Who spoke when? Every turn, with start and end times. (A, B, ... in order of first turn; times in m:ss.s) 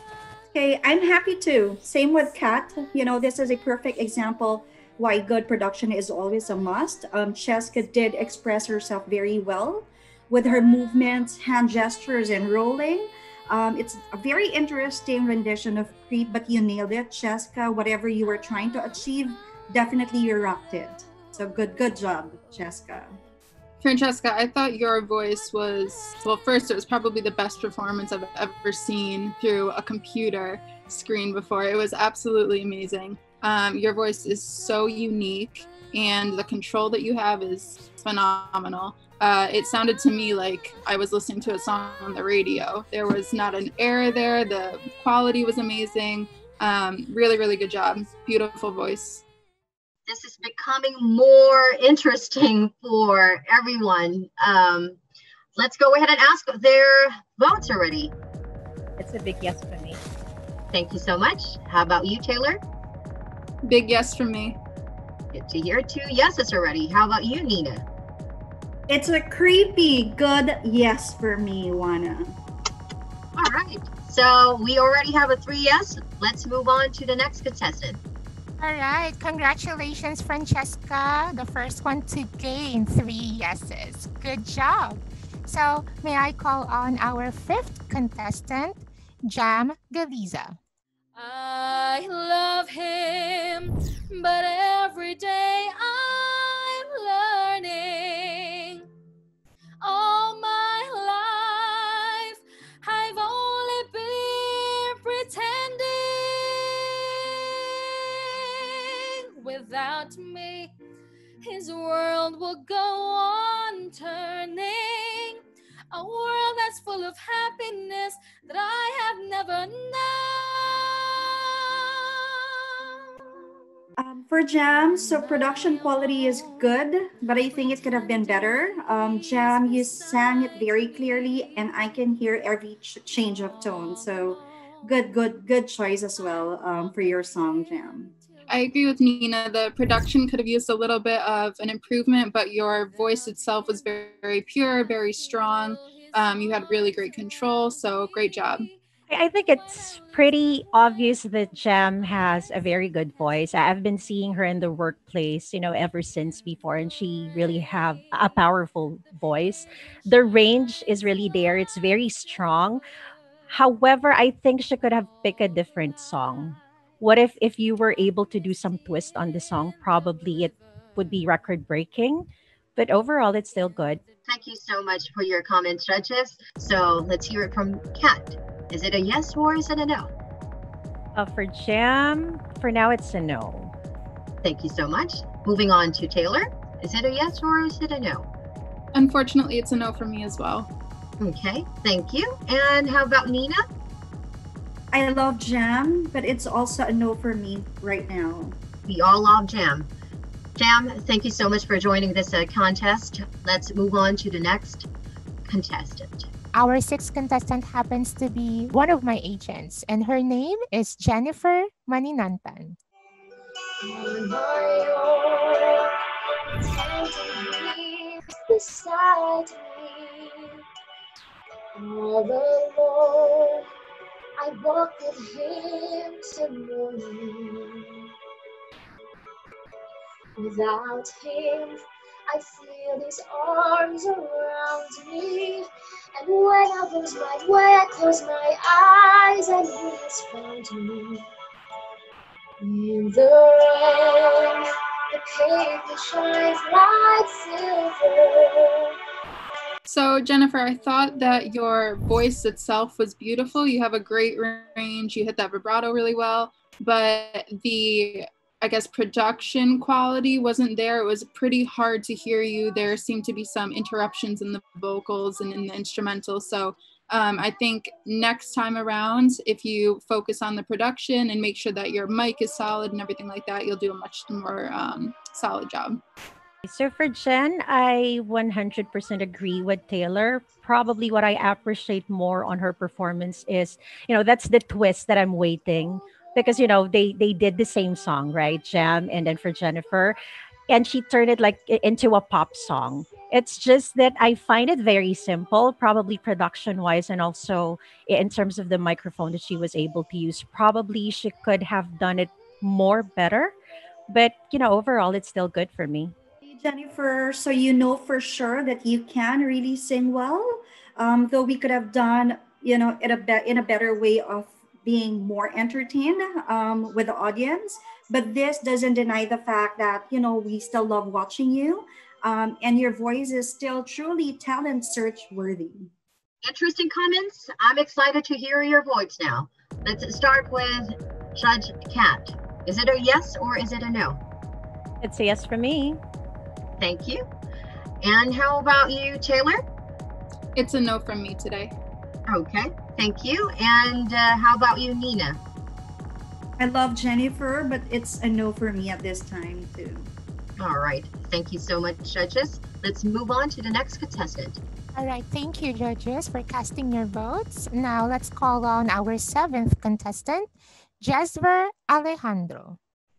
0:00.5-0:23.2 A
0:23.8-0:49.2 B
0:50.1-0:55.0 C
0:55.6-0:58.1 C
0:59.0-1:00.0 D
1:00.7-1:02.6 C
1:03.6-1:04.6 B
1:05.3-1:07.9 C
1:08.9-1:12.4 A
1:13.4-1:18.0 C
1:18.6-1:30.6 E
1:31.2-1:38.9 F
1:39.8-1:50.7 F
1:51.4-1:55.4 F
1:55.9-2:01.8 F
2:04.0-2:18.1 A
2:18.5-2:28.7 B
2:29.1-2:42.8 D
2:43.5-2:54.0 D
2:54.3-3:00.1 C
3:01.2-3:03.7 D
3:04.4-3:08.3 C
3:09.0-3:10.7 B
3:11.2-3:13.6 C
3:14.9-3:18.6 A
3:18.9-3:19.9 C
3:20.6-3:24.9 C
3:25.5-3:26.3 C
3:26.5-3:32.8 E
3:33.9-3:35.9 G
3:36.7-3:40.6 G
3:41.8-3:43.6 G
3:44.4-3:47.9 G
3:50.4-3:55.7 G
3:56.2-4:01.2 G
4:02.6-4:08.9 G
4:09.9-4:36.0 B
4:36.6-4:50.2 D
4:50.7-5:03.5 D
5:04.1-5:06.1 D
5:06.5-5:25.9 A
5:26.4-5:34.2 C
5:35.0-5:36.0 D
5:36.8-5:37.2 C
5:38.0-5:39.6 C
5:40.6-5:41.7 B
5:42.3-5:45.4 C
5:46.6-5:50.1 A
5:50.6-5:54.6 C
5:55.0-6:02.8 E